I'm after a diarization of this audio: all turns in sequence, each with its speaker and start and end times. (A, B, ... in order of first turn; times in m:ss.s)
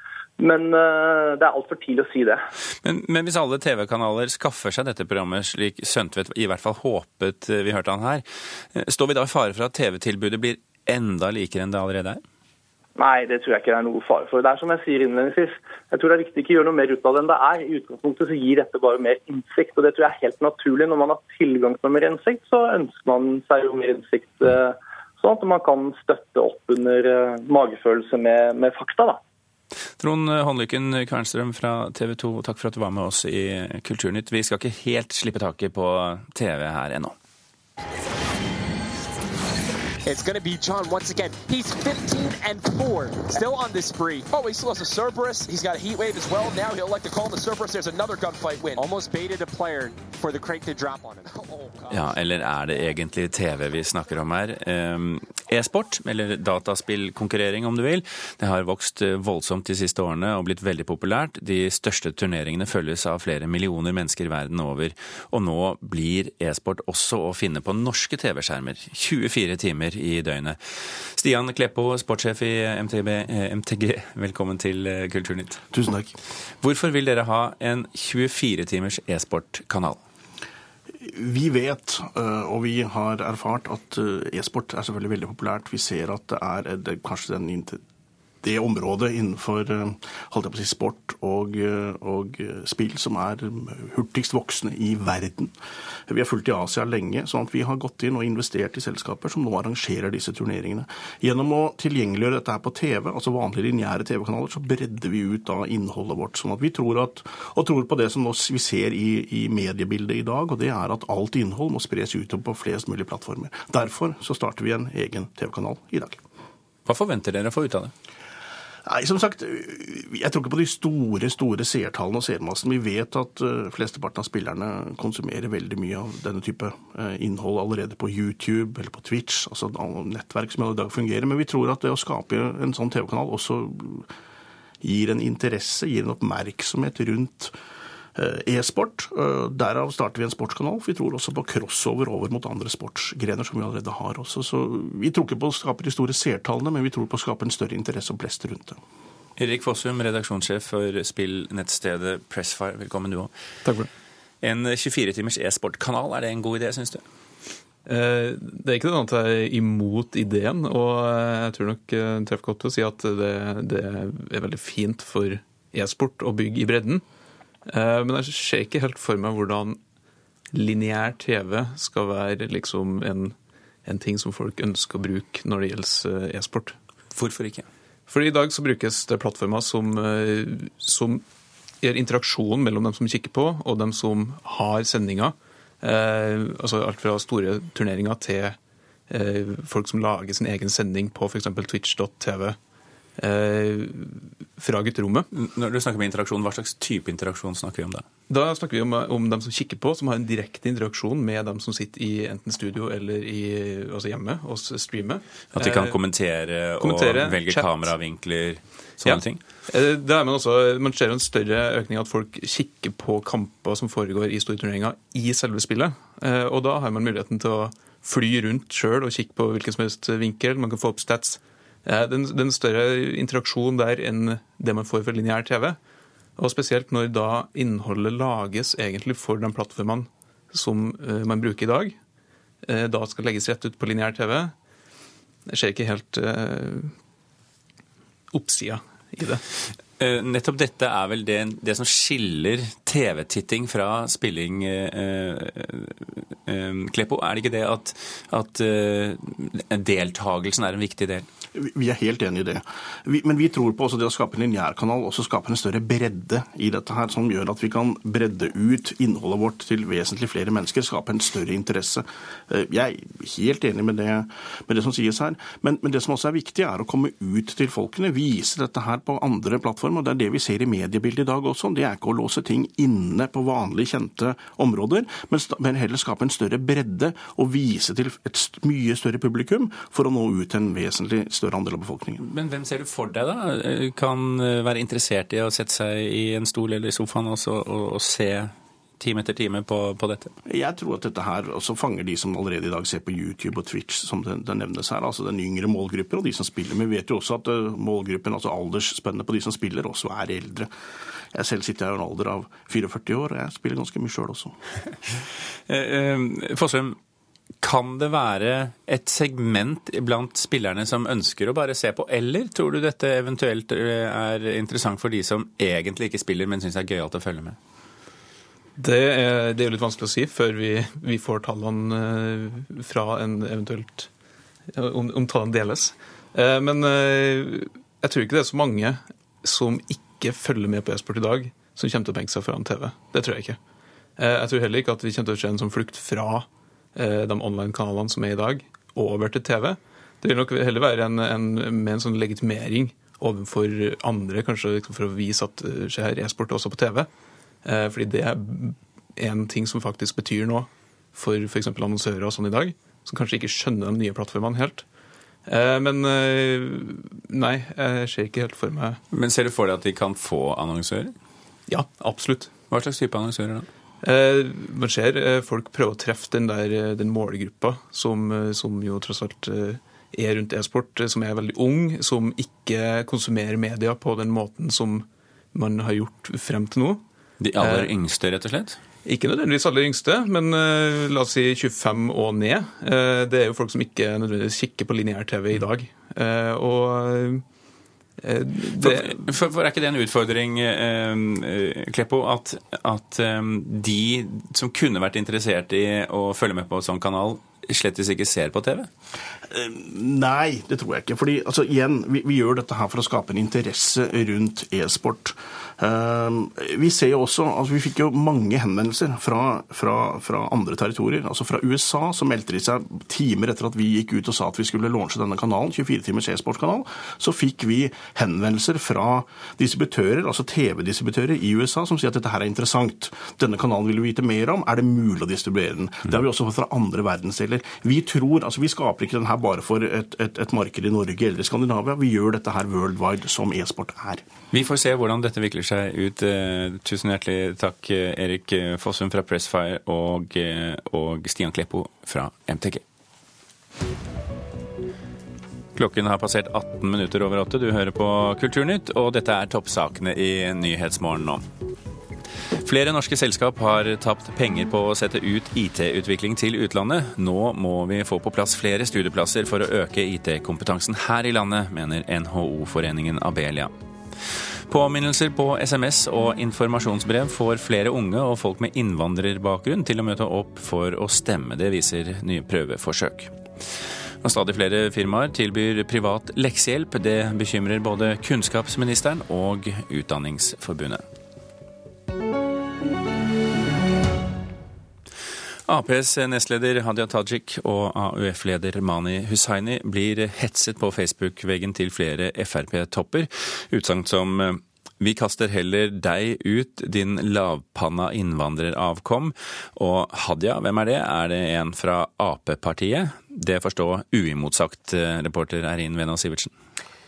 0:00.4-0:02.4 A
0:02.8-0:12.2 B
0:13.0-0:29.2 A
0:30.0-0:37.1 B
0:40.0-0:52.1 C
0:51.9-1:15.6 B
1:15.7-1:16.1 D
1:16.6-1:20.0 B
1:21.0-1:27.8 D
1:28.4-1:35.5 D
1:36.1-1:56.2 D
1:56.8-1:57.9 B
1:58.8-2:14.1 D
2:14.8-2:17.5 D
2:18.2-2:28.8 D
2:29.4-2:33.3 B
2:34.4-2:37.0 B
2:37.8-2:47.0 E
2:47.7-2:49.8 E
2:50.5-2:56.8 E
2:57.1-2:57.6 B
2:58.1-3:01.2 E
3:01.8-3:08.6 E
3:09.1-3:12.6 E
3:13.2-3:15.3 E
3:15.3-3:18.0 B
3:18.3-3:26.0 E
3:25.5-3:29.4 B
3:26.8-3:27.9 E
3:29.0-3:45.8 E
3:46.4-3:52.0 E
3:52.6-3:54.5 E
3:55.5-3:56.9 E
3:58.3-3:59.4 E
4:00.0-4:11.3 B
4:11.5-4:42.2 D
4:42.2-4:50.3 B
4:50.5-5:00.7 D
5:01.3-5:04.6 D
5:05.7-5:07.0 B
5:07.6-5:17.6 B
5:18.8-5:24.1 E
5:24.7-5:33.6 E
5:34.2-5:47.1 E
5:47.6-5:54.8 E
5:55.5-5:59.0 E
5:59.1-6:01.1 B
6:01.7-6:02.5 E
6:02.7-6:03.7 B
6:04.0-6:17.0 E
6:17.4-6:18.8 B
6:17.6-6:17.9 E
6:19.0-6:27.4 E
6:28.2-6:29.3 E
6:28.8-6:38.9 B
6:39.5-7:14.2 D
7:14.5-7:22.8 B
7:25.8-7:31.4 B
7:32.6-7:43.7 B
7:44.7-7:53.3 B
7:54.2-8:01.0 B
8:05.7-8:26.5 B